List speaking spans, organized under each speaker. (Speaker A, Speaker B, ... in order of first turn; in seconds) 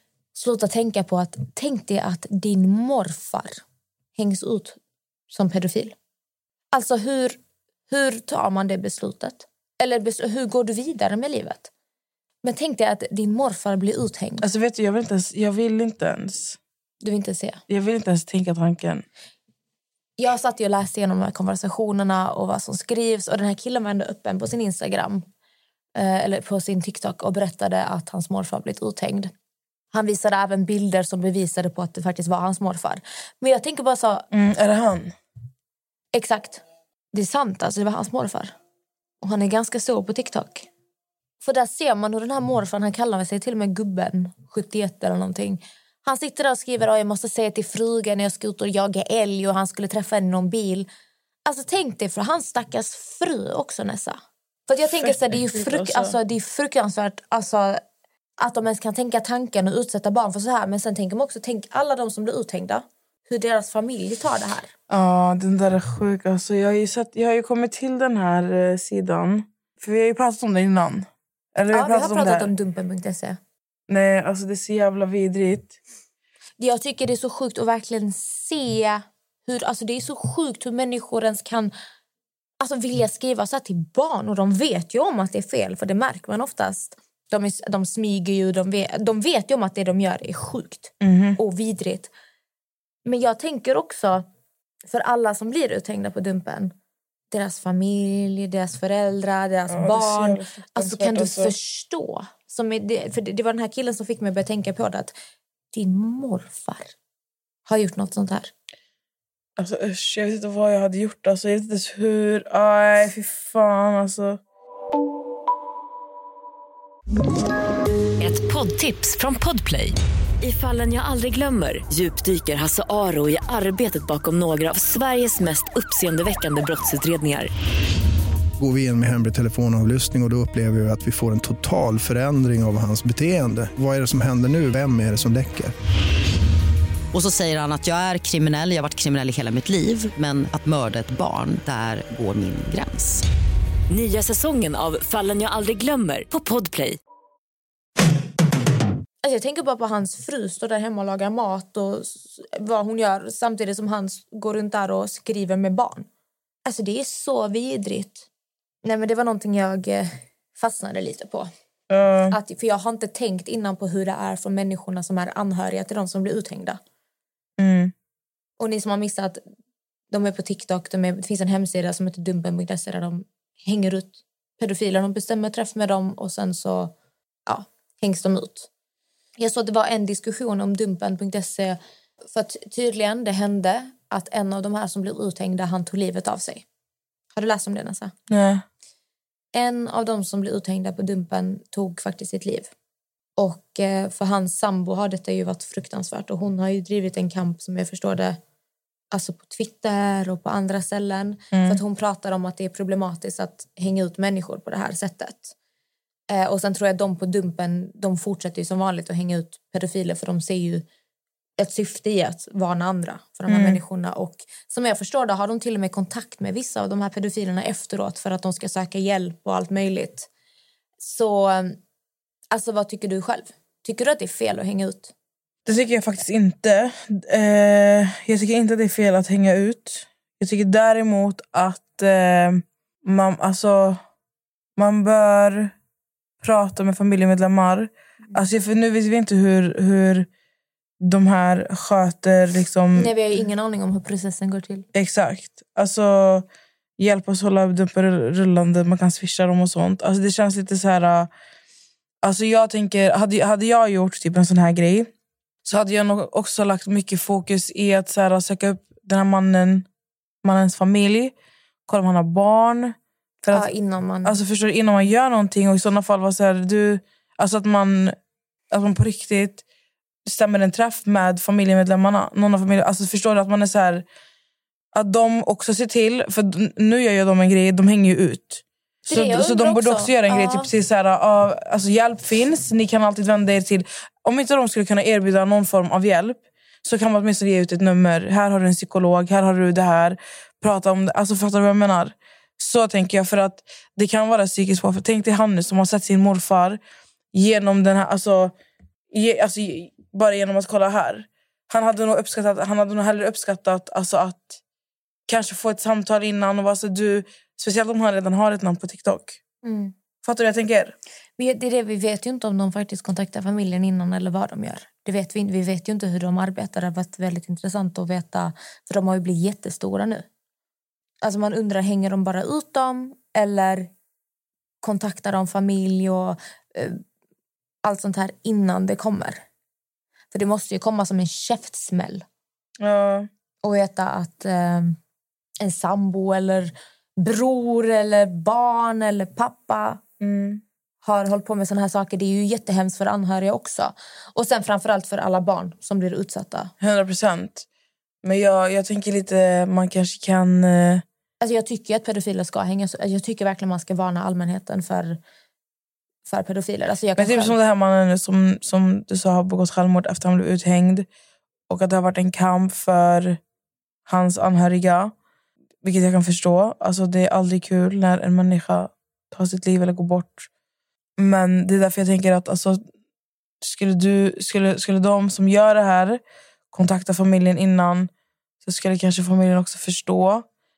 Speaker A: 0.3-3.6, 4.2-4.8, 5.3-5.9, 6.7-7.4, 7.9-11.7, 12.4-14.4, 17.0-17.6, 20.2-25.2, 25.9-29.3, 29.9-34.3, 36.1-36.6, 37.1-38.5, 39.2-40.7, 41.4-50.9, 51.5-57.8, 58.4-64.7, 71.7-73.4, 76.6-81.7, 82.6-92.1, 93.0-94.2, 94.9-96.7, 97.3-105.1, 105.7-106.9, 107.7-108.5, 149.2-156.1, 156.7-158.3, 158.8-161.5, 162.3-166.8, 168.6-169.4, 170.1-176.9, 177.5-178.7, 179.4-186.6, 187.3-188.1, 189.5-192.7, 193.4-198.4, 199.1-205.5, 206.3-210.8, 211.6-220.3, 221.0-221.8, 222.5-225.1, 242.9-244.8, 263.5-264.4, 279.1-280.7, 309.6-309.9, 311.4-320.2, 321.2-323.9, 324.8-327.0, 327.8-329.4, 330.3-332.2, 333.6-335.0, 335.6-340.0, 341.0-346.7, 351.4-355.2, 356.2-357.6
Speaker B: 14.4-16.6, 17.7-19.1, 34.3-35.1, 55.0-56.2, 64.9-72.5, 73.9-75.8, 91.0-91.4, 99.7-101.5, 109.6-114.4, 161.9-162.3, 167.6-167.9, 188.3-188.6, 201.5-201.8, 213.5-213.8, 225.6-234.0, 234.8-235.7, 236.4-240.3, 241.0-243.1, 244.9-246.5, 247.0-251.3, 252.2-255.1, 255.6-259.9, 260.4-261.3, 261.9-263.7, 264.2-268.1, 268.7-269.6, 270.2-274.0, 274.9-296.8, 297.3-298.5, 299.1-304.6, 305.3-309.4, 310.2-310.9, 332.8-333.3, 340.2-340.6, 346.8-347.6, 348.2-351.0, 357.2-361.1, 361.7-363.4, 364.1-365.1, 365.8-370.5, 371.2-372.8, 373.6-376.2, 376.7-378.1, 378.6-380.4
Speaker C: 118.2-127.5, 143.9-147.0
Speaker D: 128.6-135.7
Speaker E: 137.1-143.2